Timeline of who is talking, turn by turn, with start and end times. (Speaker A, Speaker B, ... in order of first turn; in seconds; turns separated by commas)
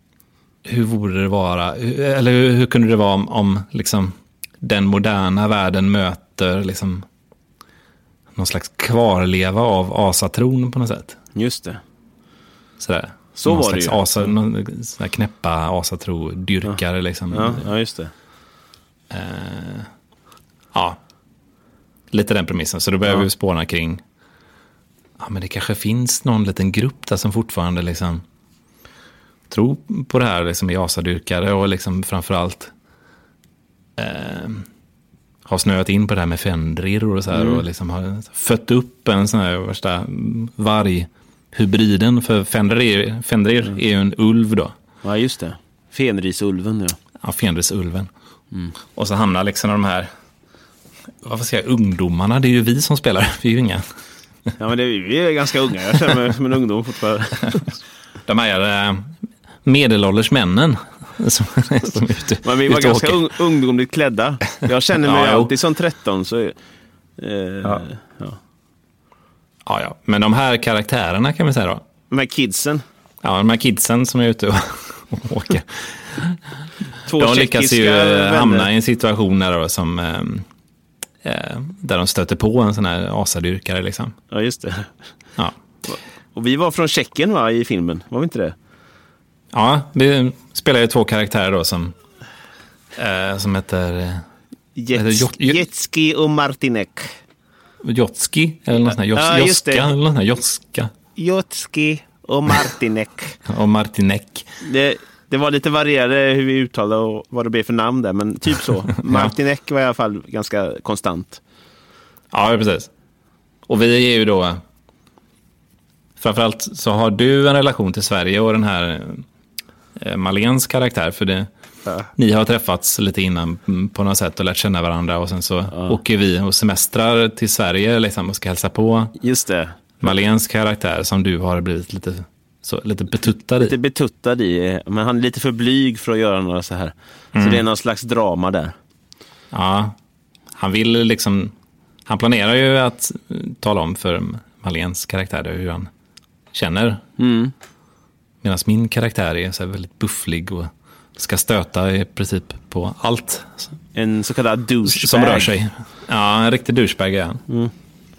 Speaker A: 0.6-7.0, Speaker A: 8.3-11.2, Speaker B: 11.3-11.8, Speaker A: 12.8-17.6, Speaker B: 13.3-14.3, Speaker B: 17.3-18.1, Speaker A: 19.1-19.9, Speaker A: 20.7-21.0, Speaker A: 22.1-24.0, Speaker A: 25.2-28.2, Speaker A: 29.5-32.7, Speaker A: 34.0-34.6, Speaker A: 35.5-44.7, Speaker B: 37.3-37.6, Speaker B: 45.0-47.0, Speaker A: 47.2-48.1, Speaker A: 48.9-50.1, Speaker A: 51.2-53.8, Speaker B: 54.6-57.7, Speaker A: 58.3-59.1, Speaker A: 59.6-63.3, Speaker B: 62.4-66.5, Speaker A: 65.0-65.5, Speaker B: 67.2-68.4, Speaker A: 69.6-71.8, Speaker B: 72.1-72.8, Speaker A: 73.2-76.4, Speaker B: 77.0-78.7, Speaker A: 77.1-80.5, Speaker A: 81.2-84.1, Speaker B: 84.3-84.9, Speaker B: 85.9-88.5, Speaker A: 89.5-91.9, Speaker A: 92.9-94.2, Speaker B: 94.8-97.1, Speaker A: 94.9-95.6, Speaker A: 97.8-100.9, Speaker B: 99.1-99.9, Speaker B: 101.1-103.4, Speaker A: 103.5-104.5, Speaker B: 104.6-111.4, Speaker A: 112.3-112.9, Speaker A: 113.7-114.6, Speaker A: 116.2-119.2, Speaker A: 120.0-121.5, Speaker A: 122.2-129.1, Speaker B: 129.2-129.8, Speaker A: 130.0-133.7, Speaker B: 133.6-138.7, Speaker A: 137.3-137.6, Speaker A: 139.5-139.9, Speaker A: 140.6-141.5, Speaker A: 142.1-145.9, Speaker A: 146.5-147.0, Speaker B: 147.2-147.5, Speaker A: 148.4-153.6, Speaker B: 153.9-155.6, Speaker A: 154.8-157.4